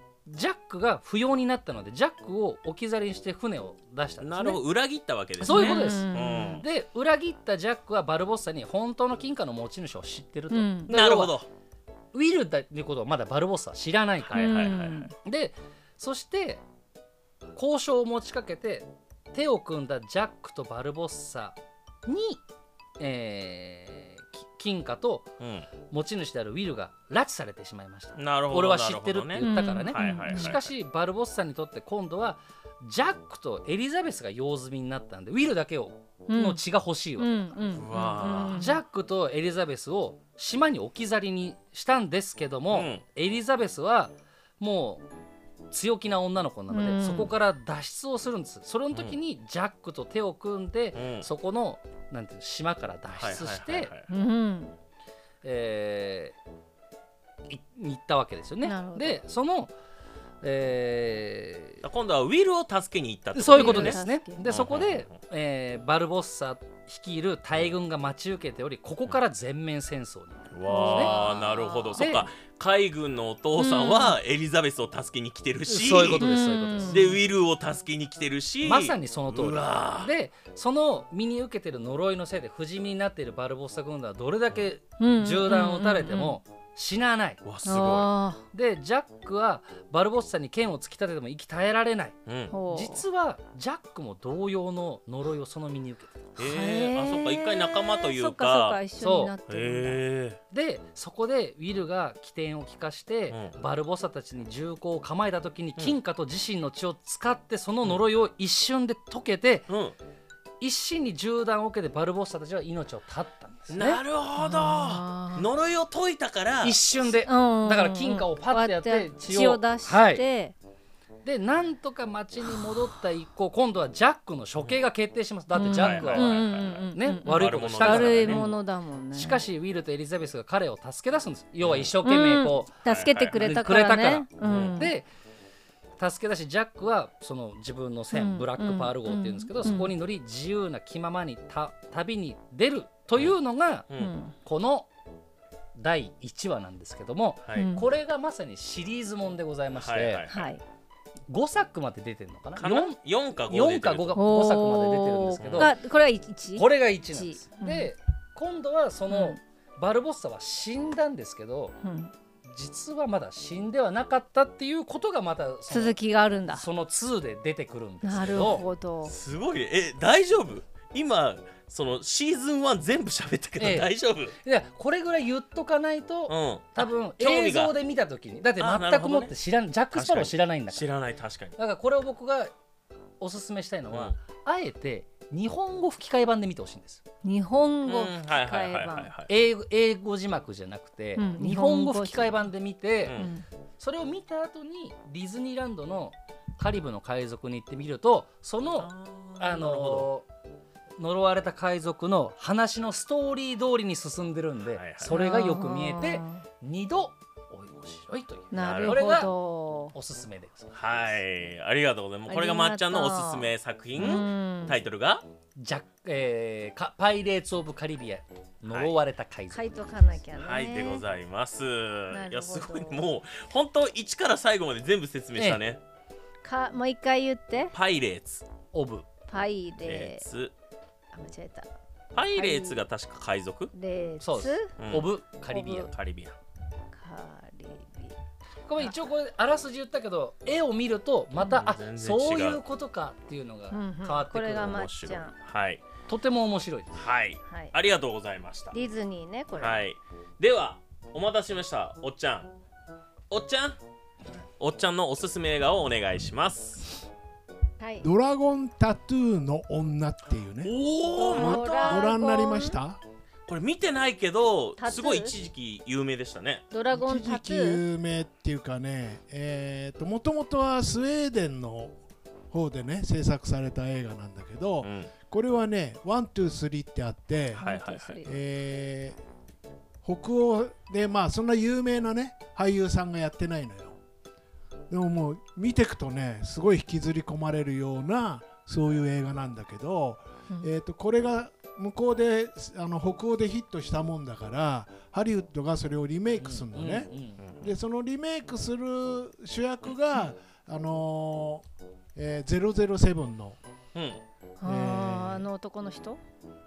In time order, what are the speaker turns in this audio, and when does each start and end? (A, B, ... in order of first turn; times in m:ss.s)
0:00.2-0:04.6 A
0:04.2-0:06.6 B
0:05.4-0:11.4 A
0:05.5-0:06.6 C
0:10.5-0:10.9 C
0:10.9-0:11.5 B
0:12.1-0:16.6 A
0:14.3-0:15.1 B
0:14.3-0:15.1 C
0:17.5-0:22.4 A
0:23.0-0:25.3 A
0:25.4-0:25.7 B
0:25.9-0:37.6 A
0:28.2-0:30.7 B
0:29.4-0:30.6 C
0:36.3-0:36.6 C
0:37.2-0:38.8 C
0:37.7-0:38.7 B
0:38.2-0:45.1 A
0:42.7-0:43.0 B
0:45.7-0:53.9 A
0:46.7-0:47.3 C
0:48.9-0:49.2 B
0:50.9-0:51.3 B
0:53.1-0:54.1 B
0:54.1-0:54.7 C
0:55.4-0:56.4 A
0:57.5-0:59.7 A
0:58.6-0:59.2 C
1:00.4-1:01.8 A
1:01.8-1:05.1 B
1:03.3-1:11.1 A
1:03.4-1:04.4 C
1:10.5-1:20.1 B
1:10.6-1:12.0 C
1:11.9-1:12.3 A
1:13.6-1:14.2 C
1:15.6-1:17.2 A
1:16.2-1:17.1 C
1:18.6-1:27.4 A
1:25.0-1:26.4 C
1:27.4-1:28.1 B
1:27.6-1:28.4 C
1:28.5-1:32.2 A
1:32.3-1:32.6 B
1:32.5-1:33.0 C
1:32.7-1:36.1 A
1:36.4-1:38.8 B
1:36.4-1:40.0 C
1:39.0-1:39.4 A
1:39.5-1:40.4 B
1:40.5-1:49.7 A
1:43.3-1:43.6 B
1:49.7-1:49.9 B
1:50.6-1:54.0 A
1:53.7-1:56.8 B
1:54.4-1:55.4 C
1:56.6-2:00.2 A
1:57.2-2:00.5 C
2:01.2-2:08.6 A
2:05.5-2:09.4 C
2:05.6-2:08.5 B
2:09.1-2:15.1 A
2:11.6-2:11.9 B
2:12.0-2:14.9 C
2:12.8-2:13.4 B
2:14.4-2:14.8 B
2:16.0-2:23.9 A
2:18.1-2:19.9 C
2:23.9-2:24.3 C
2:24.4-2:24.9 A
2:25.8-2:30.3 A
2:27.4-2:27.7 B
2:27.5-2:27.9 C
2:29.7-2:30.5 B
2:30.3-2:30.6 C
2:31.3-2:35.7 A
2:32.6-2:34.2 B
2:34.1-2:37.9 C
2:35.4-2:35.7 B
2:36.5-2:41.8 A
2:39.1-2:39.4 C
2:41.8-2:42.1 C
2:42.4-2:48.6 A
2:45.7-2:46.6 C
2:48.0-2:49.1 C
2:49.0-2:54.4 B
2:53.6-3:00.9 A
2:56.3-2:57.8 B
2:58.6-2:59.3 B
2:59.9-3:01.6 B
3:01.6-3:02.5 A
3:03.2-3:07.0 A
3:03.9-3:04.2 B
3:07.2-3:09.1 C
3:07.8-3:09.3 B
3:09.3-3:13.2 A
3:11.2-3:12.3 C
3:13.0-3:13.3 B
3:13.1-3:13.4 C
3:13.8-3:20.2 A
3:18.6-3:20.1 B
3:21.0-3:29.3 A
3:24.7-3:25.1 B
3:25.1-3:26.4 C
3:28.5-3:29.9 C
3:28.6-3:29.2 B
3:29.9-3:31.2 A
3:30.7-3:35.2 B
3:32.3-3:34.8 C
3:35.6-3:39.8 A
3:38.7-3:39.0 B
3:39.5-3:41.0 C
3:40.3-3:45.8 B
3:42.1-3:43.0 C
3:45.3-3:45.6 A
3:46.4-3:47.7 C
3:47.7-3:48.4 B
3:48.7-3:49.1 A
3:49.3-3:50.2 C
3:49.8-3:50.5 B
3:51.1-3:51.7 C
3:52.1-3:53.7 B
3:52.3-3:52.8 C
3:53.7-3:54.7 C
3:54.2-3:55.9 A
3:54.8-3:55.1 B
3:55.5-3:55.9 C
3:55.9-3:56.4 B
3:56.9-3:58.2 C
3:58.7-4:04.8 A
4:01.5-4:02.6 B
4:03.7-4:05.3 C
4:04.6-4:05.8 B
4:06.1-4:07.0 A
4:07.0-4:08.8 B
4:07.5-4:07.7 C
4:08.7-4:09.8 C
4:09.6-4:12.5 B
4:13.3-4:13.8 B
4:14.6-4:17.0 B
4:17.8-4:18.1 C
4:18.0-4:23.0 D
4:20.6-4:22.1 B
4:21.1-4:22.8 C
4:23.5-4:26.7 B
4:24.8-4:25.3 C
4:26.7-4:27.8 C
4:26.9-4:32.0 D
4:32.5-4:39.2 D
4:34.8-4:35.1 B
4:37.5-4:38.4 C
4:37.6-4:38.2 B
4:40.0-4:44.0 D
4:44.9-5:03.6 D
4:56.4-4:57.4 A
4:57.4-4:57.8 B
5:03.9-5:04.2 B
5:04.6-5:06.2 C
5:04.6-5:05.5 D